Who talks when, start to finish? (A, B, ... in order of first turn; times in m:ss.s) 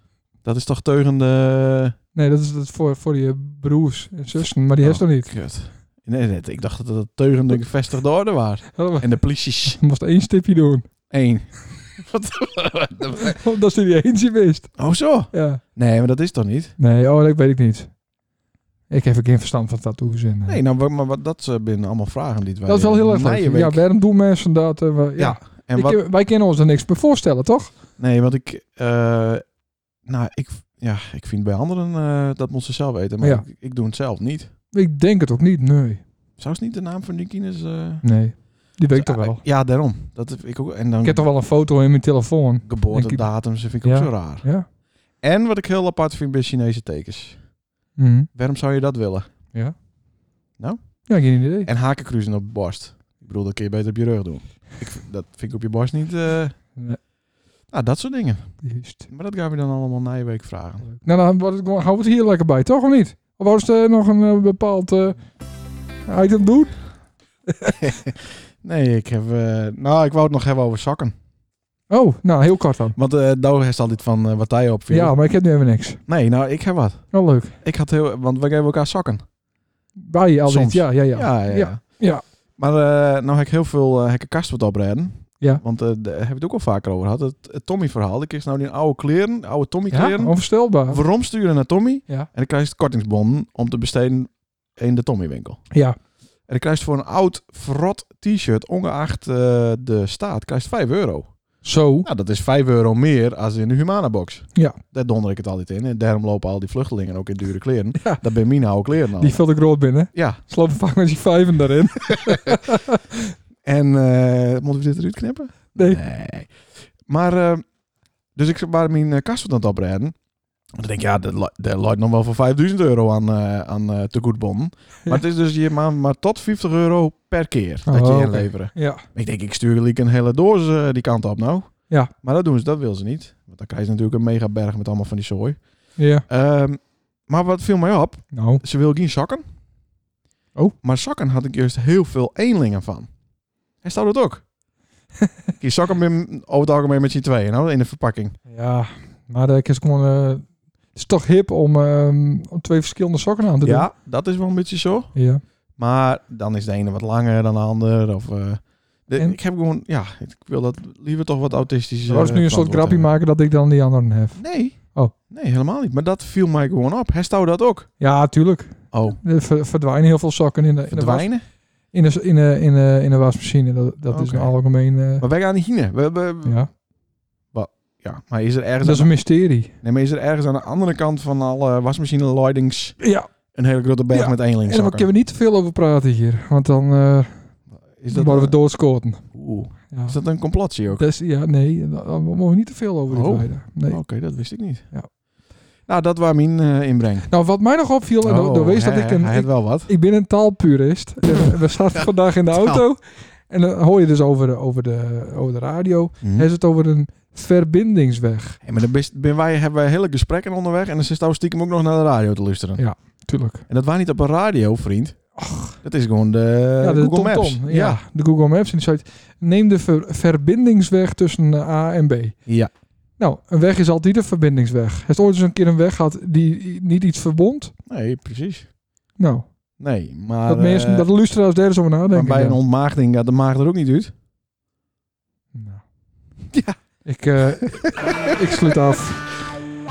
0:00.4-0:02.0 A
0:02.2-0:05.3 B
0:04.8-0:09.8 A
0:08.8-0:09.1 B
0:09.6-0:10.8 B
0:11.1-0:13.4 A
0:13.2-0:14.8 B
0:14.8-0:16.8 A
0:15.3-0:15.6 B
0:16.8-0:17.9 B
0:18.9-0:20.6 B
0:20.5-0:23.8 A
0:22.7-0:27.7 B
0:25.2-0:26.0 A
0:28.0-0:29.4 A
0:30.0-0:34.5 A
0:33.2-0:33.5 B
0:34.7-0:36.0 B
0:36.4-0:38.0 A
0:38.0-0:39.4 B
0:38.9-0:41.3 A
0:41.0-0:43.3 B
0:42.6-0:44.4 A
0:43.8-0:44.7 B
0:45.2-0:47.4 A
0:48.0-0:48.3 B
0:48.4-0:49.3 A
0:50.6-0:51.1 A
0:51.1-0:51.7 B
0:51.6-0:56.6 A
0:57.7-1:00.9 A
0:58.6-0:59.1 B
1:00.9-1:05.2 B
1:06.1-1:06.7 B
1:07.5-1:07.8 B
1:07.8-1:11.1 A
1:11.9-1:13.0 B
1:13.0-1:15.2 A
1:14.9-1:16.0 B
1:16.1-1:17.1 A
1:17.1-1:17.6 B
1:17.6-1:19.2 A
1:20.1-1:22.2 B
1:20.5-1:21.8 A
1:22.6-1:35.6 A
1:29.9-1:31.0 B
1:36.5-1:41.4 A
1:41.6-1:42.1 B
1:42.0-1:49.4 A
1:49.2-1:53.2 B
1:50.1-1:50.4 A
1:52.1-1:52.6 A
1:53.6-1:56.5 A
1:55.8-1:56.0 B
1:57.1-1:57.6 A
1:58.4-2:00.2 A
2:00.8-2:15.6 A
2:07.9-2:09.0 B
2:16.0-2:16.2 B
2:16.3-2:19.4 A
2:18.3-2:18.6 B
2:20.8-2:23.1 A
2:23.8-2:24.5 A
2:25.6-2:28.4 A
2:28.5-2:33.9 B
2:33.6-2:35.1 A
2:35.2-2:35.4 B
2:35.8-2:43.2 A
2:42.1-2:44.4 B
2:44.4-2:47.9 A
2:48.0-2:51.3 B
2:48.9-2:49.2 A
2:50.9-2:51.4 A
2:51.9-2:55.2 B
2:54.1-2:54.5 A
2:55.2-2:56.6 A
2:56.4-2:56.7 B
2:57.5-2:59.1 A
2:58.8-2:59.7 B
2:59.8-3:03.0 A
3:03.0-3:03.3 B
3:03.5-3:05.1 A
3:04.1-3:07.4 B
3:08.0-3:08.6 A
3:08.1-3:09.2 B
3:09.3-3:11.0 A
3:09.9-3:10.2 B
3:11.0-3:14.0 B
3:13.1-3:14.9 A
3:15.9-3:17.3 A
3:17.3-3:28.6 B
3:18.2-3:19.9 A
3:22.5-3:22.8 A
3:26.2-3:26.5 A
3:28.6-3:32.8 A
3:32.8-3:33.6 B
3:33.7-3:35.2 A
3:35.4-3:35.8 B
3:35.8-3:38.0 A
3:36.8-3:42.4 B
3:42.5-3:42.7 A
3:43.2-3:47.7 B
3:47.9-3:48.7 A
3:49.2-3:49.5 B
3:49.8-3:51.1 A
3:50.5-3:52.6 B
3:52.1-3:54.1 A
3:55.5-3:55.8 B
3:56.5-3:56.8 A
3:57.1-3:59.3 B
3:57.6-3:58.8 A